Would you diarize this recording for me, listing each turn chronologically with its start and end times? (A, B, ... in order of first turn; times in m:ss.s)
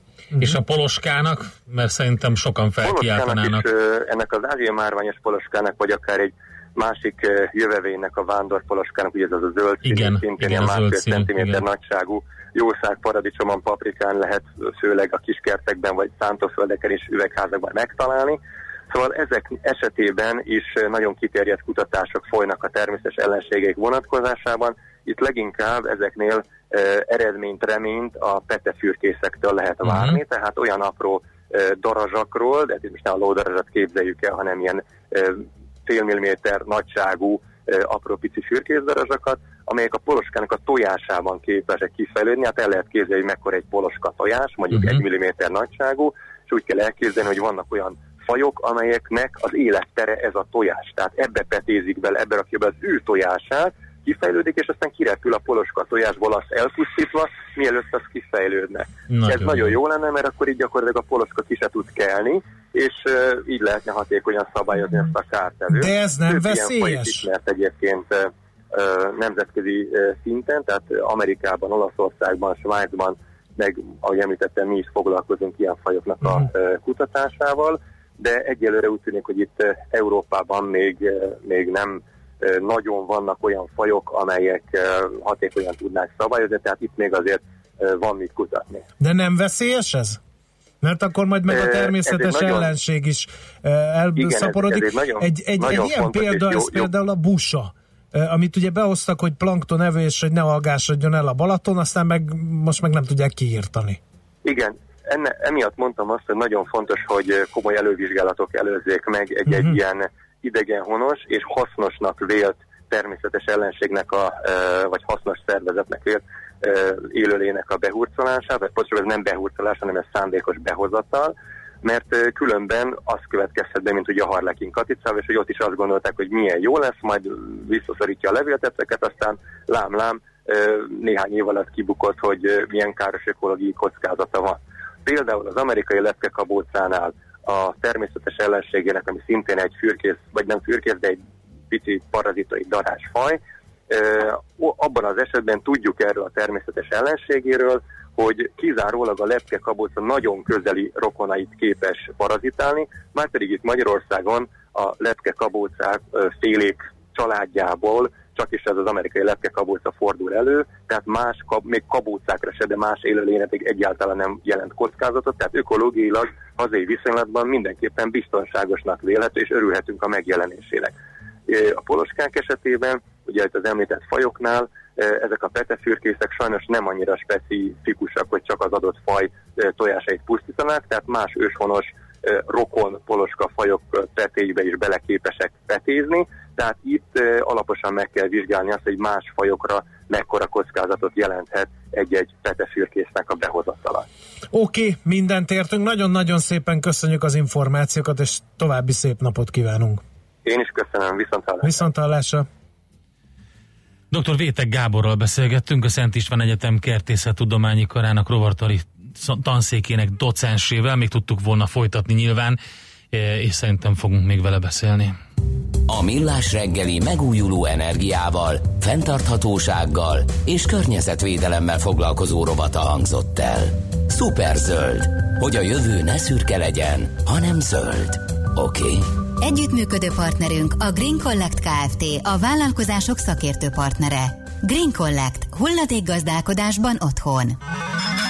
0:00.4-0:03.6 A
0:02.8-0:18.4 B
0:09.8-0:11.6 A
0:18.9-1:28.8 B
0:29.8-0:30.2 A
0:59.1-0:59.7 A
1:05.7-1:07.2 C
1:29.0-1:30.2 C
1:30.8-1:44.0 C
1:31.5-1:32.7 B
1:34.2-1:36.9 B
1:44.4-2:50.9 B
1:49.5-1:49.8 C
2:51.5-3:14.0 B
3:14.5-3:20.0 C
3:20.4-3:21.8 B
3:21.6-3:22.5 C
3:24.1-3:32.6 A
3:33.1-3:35.1 A
3:35.9-3:49.1 D
3:49.4-3:57.6 E